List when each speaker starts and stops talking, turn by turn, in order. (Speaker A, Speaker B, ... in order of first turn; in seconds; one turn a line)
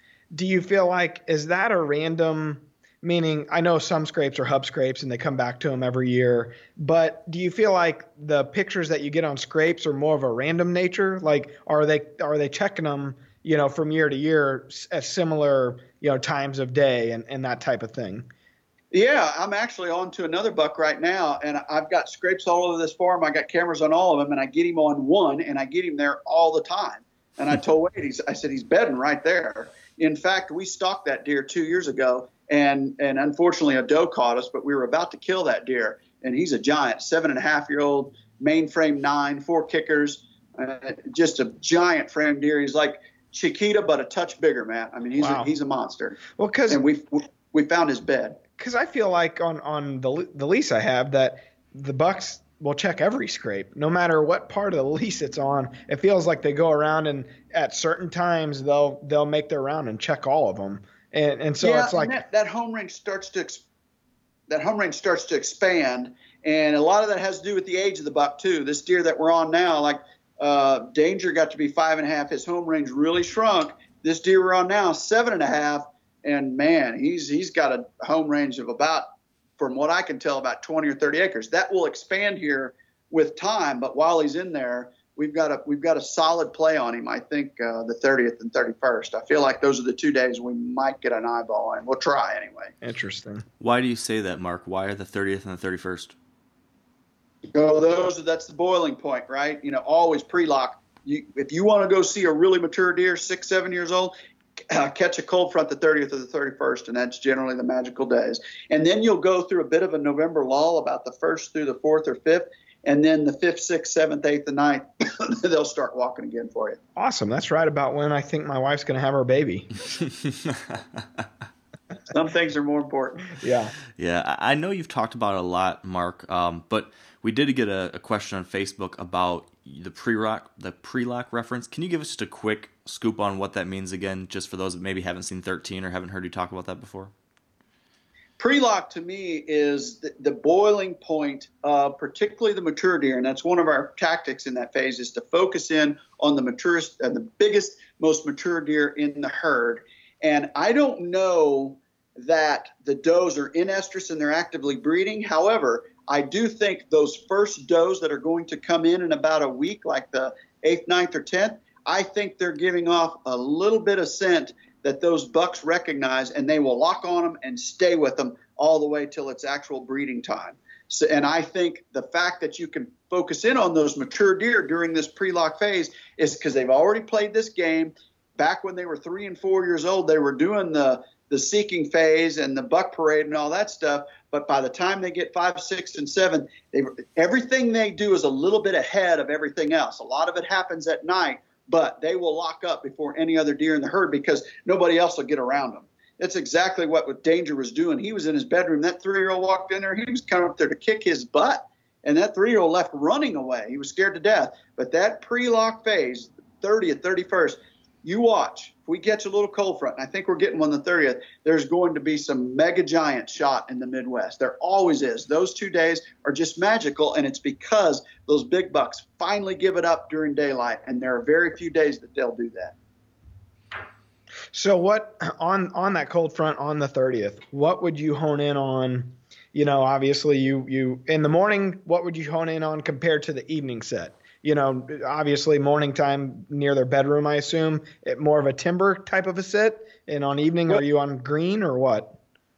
Speaker A: 0.3-18.3
Speaker B: 18.9-48.4
Speaker A: 45.2-45.5
Speaker A: 46.4-46.8
Speaker A: 48.6-62.1
Speaker B: 61.6-63.6
Speaker B: 64.5-79.0
Speaker B: 79.6-92.7
Speaker A: 92.8-93.4
Speaker C: 93.6-96.1
Speaker B: 97.5-104.1
Speaker B: 104.7-116.8
Speaker A: 117.0-120.0
Speaker C: 120.2-121.0
Speaker B: 122.1-123.3
Speaker A: 123.4-123.7
Speaker C: 124.0-137.1
Speaker B: 138.4-222.8
Speaker A: 224.5-242.2